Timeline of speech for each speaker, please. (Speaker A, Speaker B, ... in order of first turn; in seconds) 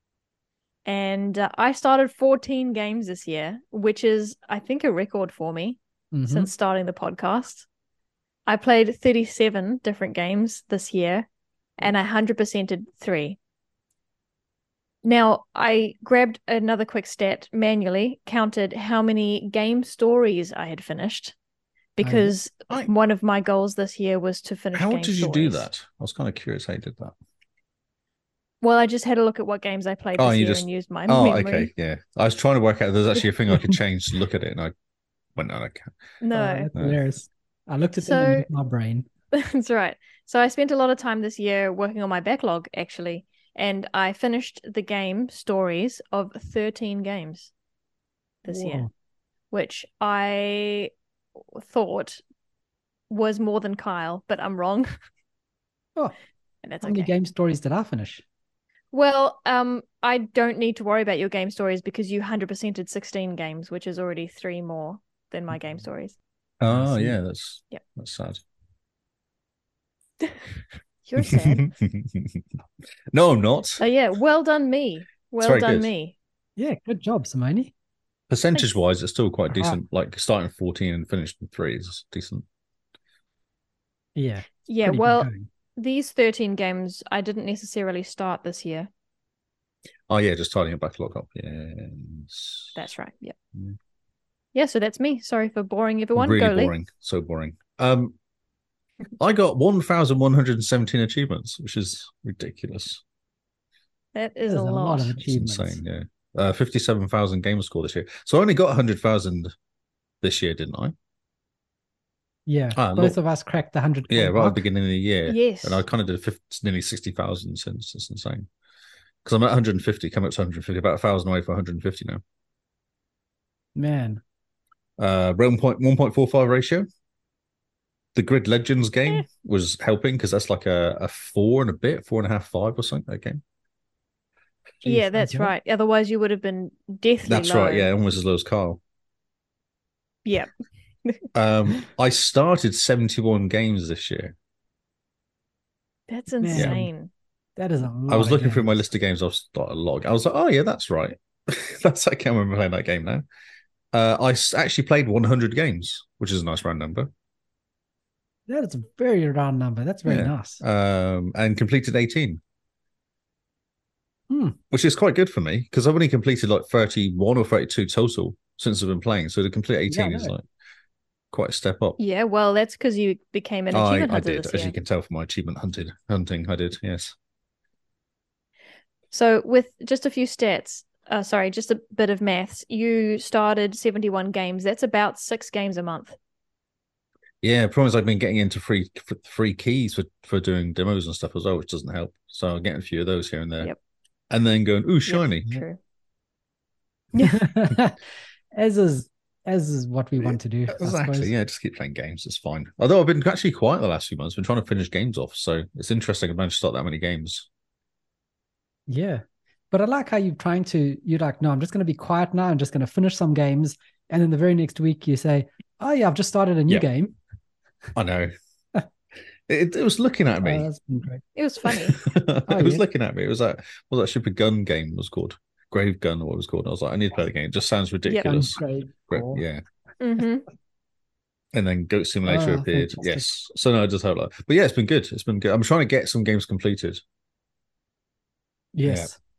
Speaker A: 0.8-7.7, 8.5-11.3, 11.8-13.4, 15.0-21.3, 22.0-25.7, 28.6-31.7, 36.2-36.7, 38.0-38.5, 39.3-47.5, 48.4-48.9, 49.5-52.2, 53.1-54.9, 56.6-57.1, 58.9-66.2, 71.1-71.7, 73.8-76.1, 84.7-88.9, 92.8-93.3, 94.5-96.7, 104.2-105.2, 115.3-115.8, 134.8-137.9, 146.1-147.1, 172.0-174.8, 179.1-186.2, 195.1-195.8, 197.2-197.4, 221.4-222.0, 230.0-230.4
Speaker B: 6.1-6.5, 22.0-22.3, 36.3-39.1, 48.5-48.9, 56.8-58.2, 66.7-67.2, 76.6-77.7, 79.5-79.8, 84.2-85.5, 104.4-105.8, 112.5-114.6, 123.8-124.2, 134.8-135.5, 146.4-146.9, 147.6-148.8, 158.5-160.6, 164.3-164.6, 169.9-170.3, 197.2-198.0, 198.5-201.3, 208.9-217.2, 220.4-221.2, 222.5-222.8, 228.2-229.4, 232.3-233.3, 238.7-239.2
Speaker C: 24.8-27.1, 30.2-34.7, 35.4-35.9, 36.7-37.0, 66.6-68.4, 71.2-72.4, 73.1-73.8, 75.4-75.9, 78.3-82.5, 90.1-92.8, 96.2-98.2, 99.2-103.0, 105.2-109.5, 110.2-110.9, 112.8-113.2, 114.1-118.5, 119.2-122.2, 125.0-126.9, 128.2-133.4, 137.3-138.8, 141.3-144.3, 148.1-153.2, 153.9-157.1, 160.1-162.4, 164.7-170.4, 171.3-172.0, 173.7-177.2, 187.4-193.7, 194.3-195.6, 200.2-207.5, 217.9-218.3, 219.5-220.7, 222.0-229.6, 231.5-237.0